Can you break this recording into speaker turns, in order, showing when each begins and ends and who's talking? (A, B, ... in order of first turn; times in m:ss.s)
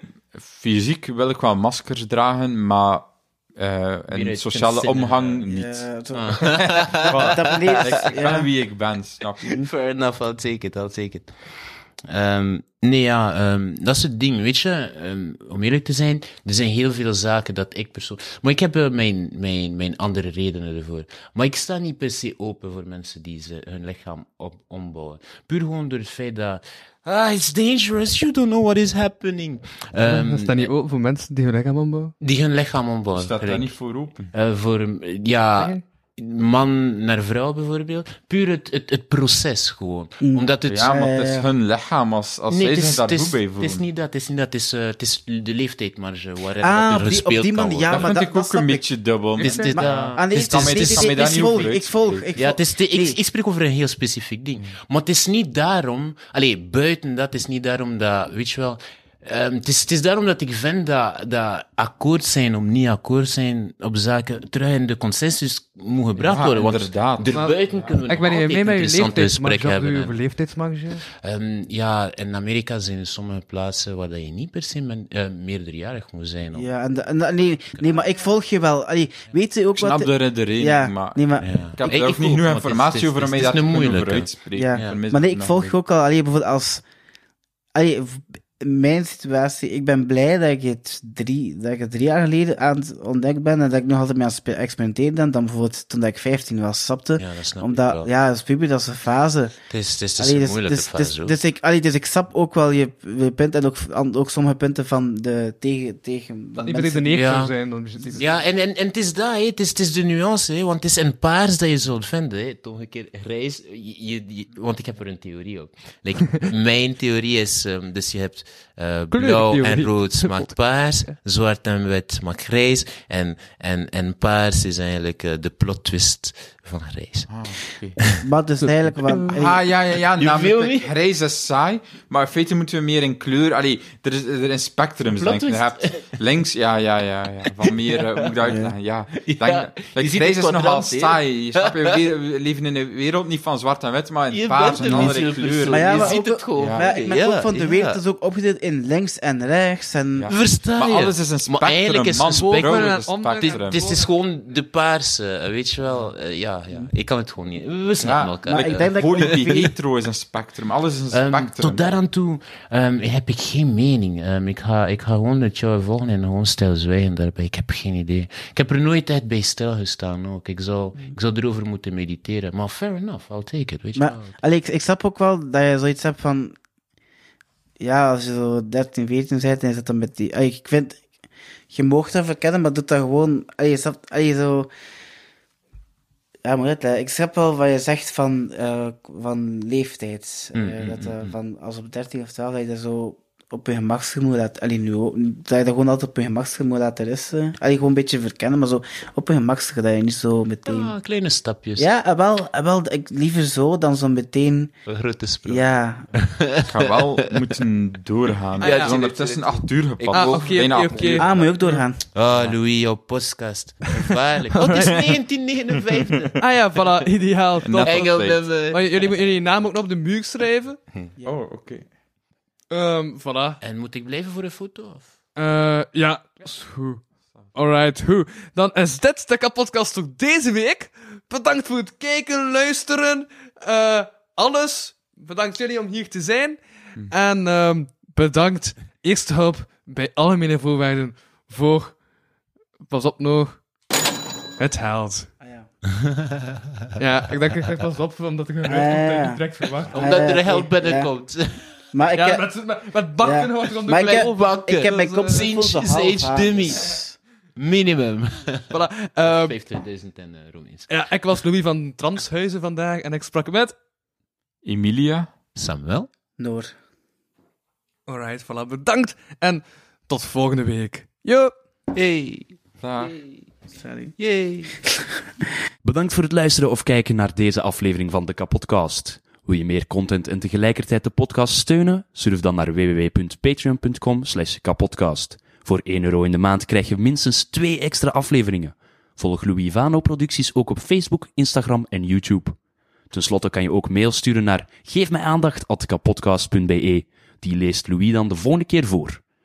0:00.3-0:05.8 A
0:04.1-0:05.4 B
0:05.5-0:08.5 C
0:06.1-0:08.4 B
0:06.4-0:09.5 A
0:09.4-0:11.3 B
0:12.1-0:30.7 B
0:30.1-0:32.1 D
0:32.2-0:33.7 B
0:33.1-0:34.3 A
0:34.3-0:41.0 B
0:40.2-0:41.5 C
0:40.7-0:43.8 A
0:42.5-0:48.1 B
0:46.6-0:48.8 C
0:47.9-0:52.2 A
0:49.4-0:51.7 B
0:49.4-0:53.2 C
0:52.4-1:10.1 B
1:06.2-1:07.9 A
1:07.3-1:11.0 D
1:11.1-1:16.7 B
1:16.5-1:21.5 C
1:19.7-1:21.2 A
1:21.4-1:25.0 B
1:21.7-1:25.7 A
1:24.5-1:26.8 C
1:27.7-1:39.5 C
1:37.2-1:38.1 B
1:39.7-1:41.4 B
1:40.2-1:47.2 C
1:46.6-1:48.2 D
1:47.1-1:47.5 B
1:48.1-2:07.3 B
1:59.1-2:00.5 D
2:07.3-2:08.0 A
2:08.0-2:08.2 B
2:08.2-2:09.6 C
2:09.2-2:26.8 A
2:10.2-2:10.9 B
2:15.0-2:16.2 B
2:17.4-2:18.5 B
2:18.5-2:18.7 C
2:19.1-2:22.0 B
2:24.3-2:28.0 B
2:24.8-2:25.1 C
2:25.7-2:30.3 C
2:30.2-2:33.8 A
2:30.3-2:39.6 B
2:32.3-2:34.1 D
2:38.0-2:42.0 A
2:38.4-2:39.7 C
2:41.1-2:54.3 B
2:54.0-2:56.5 C
2:57.8-3:01.0 C
3:01.7-3:04.7 C
3:06.4-3:20.9 C
3:10.5-3:11.3 B
3:20.6-3:21.9 B
3:21.8-3:24.7 C
3:24.8-3:27.5 B
3:25.4-3:26.1 C
3:26.6-3:31.4 A
3:28.6-3:31.4 B
3:28.6-3:29.0 D
3:30.1-3:31.2 D
3:31.2-3:32.0 C
3:32.1-3:37.1 B
3:34.0-3:35.0 D
3:36.4-3:40.8 D
3:37.6-3:38.4 A
3:37.8-3:39.1 B
3:41.2-3:41.8 A
3:42.7-3:43.6 D
3:43.6-3:45.1 B
3:45.4-3:47.0 D
3:47.5-4:02.0 D
4:02.9-4:03.6 D
4:04.6-4:05.3 D
4:05.4-4:05.7 C
4:06.0-4:06.5 B
4:07.0-4:10.1 D
4:08.6-4:11.1 C
4:09.9-4:11.7 B
4:11.9-4:12.4 C
4:12.1-4:15.5 D
4:13.2-4:17.2 C
4:14.0-4:17.0 B
4:17.6-4:20.9 B
4:18.7-4:19.5 D
4:20.9-4:23.8 D
4:24.6-4:25.3 A
4:25.6-4:26.1 B
4:26.4-4:26.7 C
4:28.1-4:31.5 D
4:31.9-4:33.3 B
4:32.8-4:33.2 A
4:33.8-4:34.1 C
4:34.2-4:34.7 B
4:35.8-4:52.6 E
4:53.1-4:59.2 E